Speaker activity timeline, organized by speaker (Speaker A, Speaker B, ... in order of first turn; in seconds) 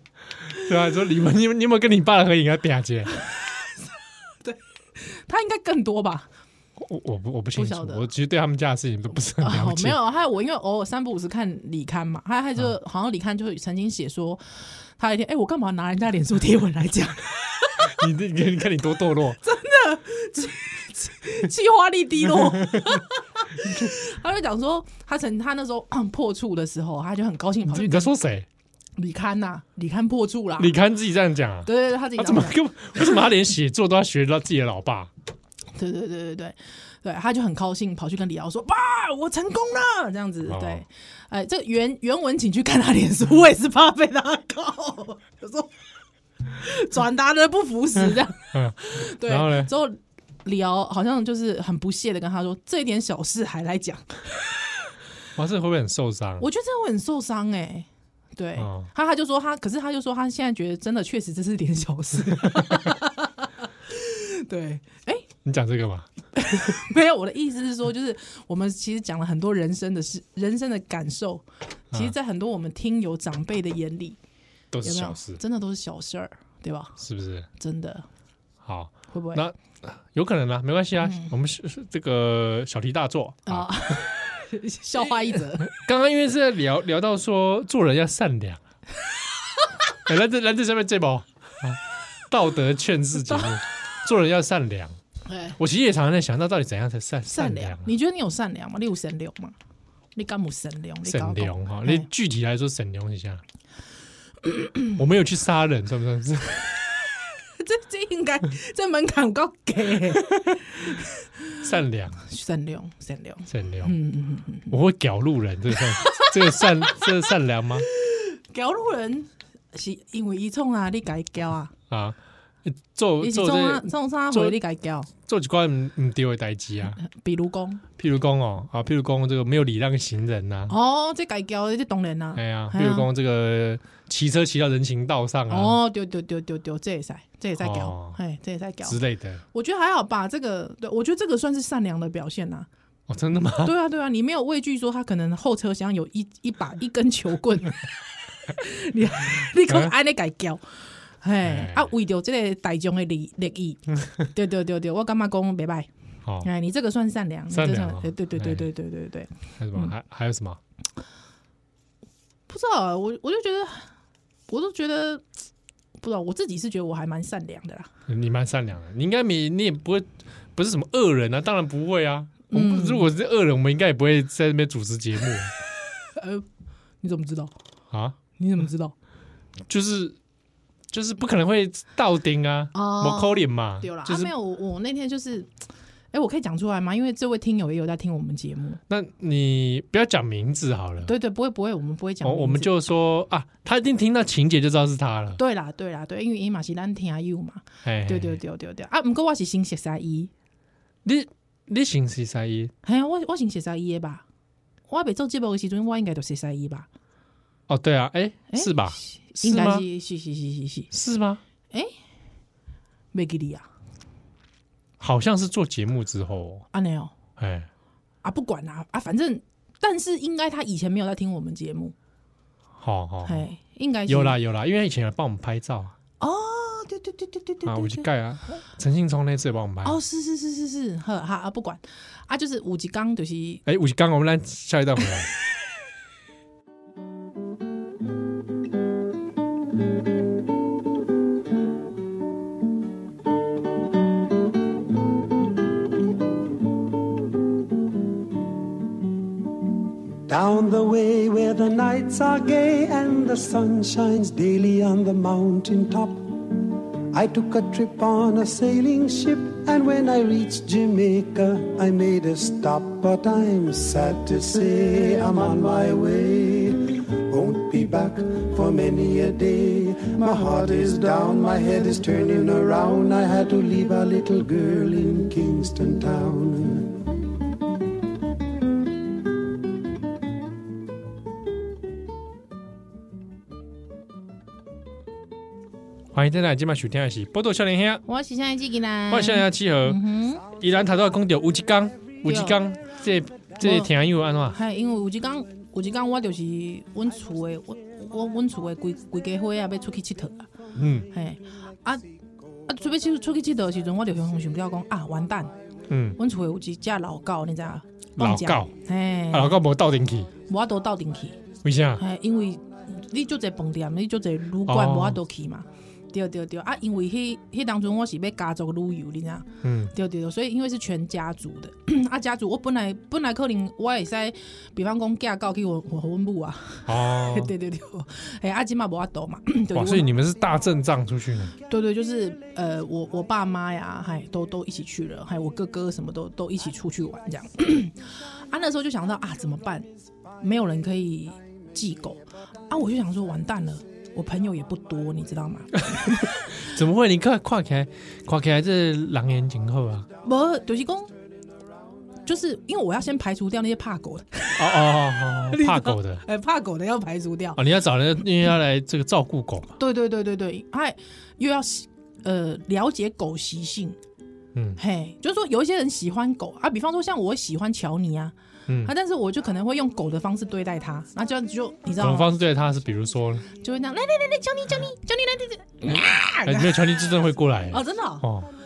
Speaker A: 0.5-3.1, 6.8-10.0, 17.9-19.4, 22.4-23.0, 27.7-28.5, 30.6-35.1, 40.5-40.8, 48.5-49.7, 55.4-56.5, 58.6-58.9, 65.5-66.1, 74.7-75.4, 77.0-77.5, 78.6-84.0, 85.5-88.6, 90.1-95.0, 95.6-97.9, 101.0-103.4, 105.0-106.8, 111.6-112.2, 113.5-113.9, 114.7-117.9, 121.9-124.6, 125.2-127.0, 128.0-130.8, 132.4-135.8, 137.6-138.2, 138.8-139.4, 143.1-143.7, 149.7-149.9, 151.4-151.9, 157.5-158.7, 159.6-160.6, 168.1-175.5, 177.9-178.2, 179.7-180.2, 180.9-184.3, 188.9-191.1, 192.2-195.4, 197.8-198.4, 201.0-202.7, 207.7-209.8, 210.9-211.4, 215.0-216.6, 217.4-217.7, 222.8-223.4, 224.1-225.9, 227.6-230.0, 233.7-235.3, 286.1-288.0, 289.1-294.6, 300.8-301.1, 305.9-306.2, 308.2-308.7, 309.3-310.3, 311.6-312.0, 314.6-315.2, 319.6-319.9, 326.9-327.5, 329.7-331.5, 346.5-350.1, 354.6-356.2, 357.6-359.8, 364.5-364.8, 368.7-368.9, 372.0-373.5, 375.9-378.5
Speaker B: 4.4-6.3, 7.5-8.1, 9.4-17.9, 19.4-28.1, 29.0-30.8, 31.6-33.1, 35.8-45.7, 46.5-54.4, 56.4-65.2, 66.4-74.2, 74.8-77.0, 77.5-78.1, 79.1-79.4, 81.0-81.3, 83.5-85.7, 95.2-95.6, 97.3-99.5, 100.1-102.1, 104.5-104.9, 107.5-111.6, 112.2-114.7, 115.8-117.3, 117.9-121.7, 123.2-125.1, 127.0-127.8, 130.7-133.1, 135.5-139.0, 139.5-142.7, 143.6-147.9, 148.5-150.6, 151.2-155.9, 156.4-159.9, 162.5-163.9, 164.5-165.2, 166.0-167.9, 172.5-173.1, 176.2-176.5, 177.0-177.5, 178.4-178.9, 182.7-185.5, 186.1-188.8, 191.0-192.7, 195.4-200.3, 202.8-204.2, 204.9-206.9, 208.5-210.9, 213.1-213.7, 216.7-217.1, 218.2-221.9, 223.2-224.4, 226.2-228.1, 229.8-233.6, 288.1-290.4, 292.2-292.6, 293.6-293.9, 294.5-300.5, 301.1-302.0, 302.7-305.5, 306.1-309.6, 310.5-311.4, 312.0-330.1, 331.6-339.9, 340.4-346.6, 350.2-351.1, 352.2-357.6, 359.8-364.0, 364.8-372.4, 373.5-376.8, 377.7-378.2
Speaker C: 250.2-277.0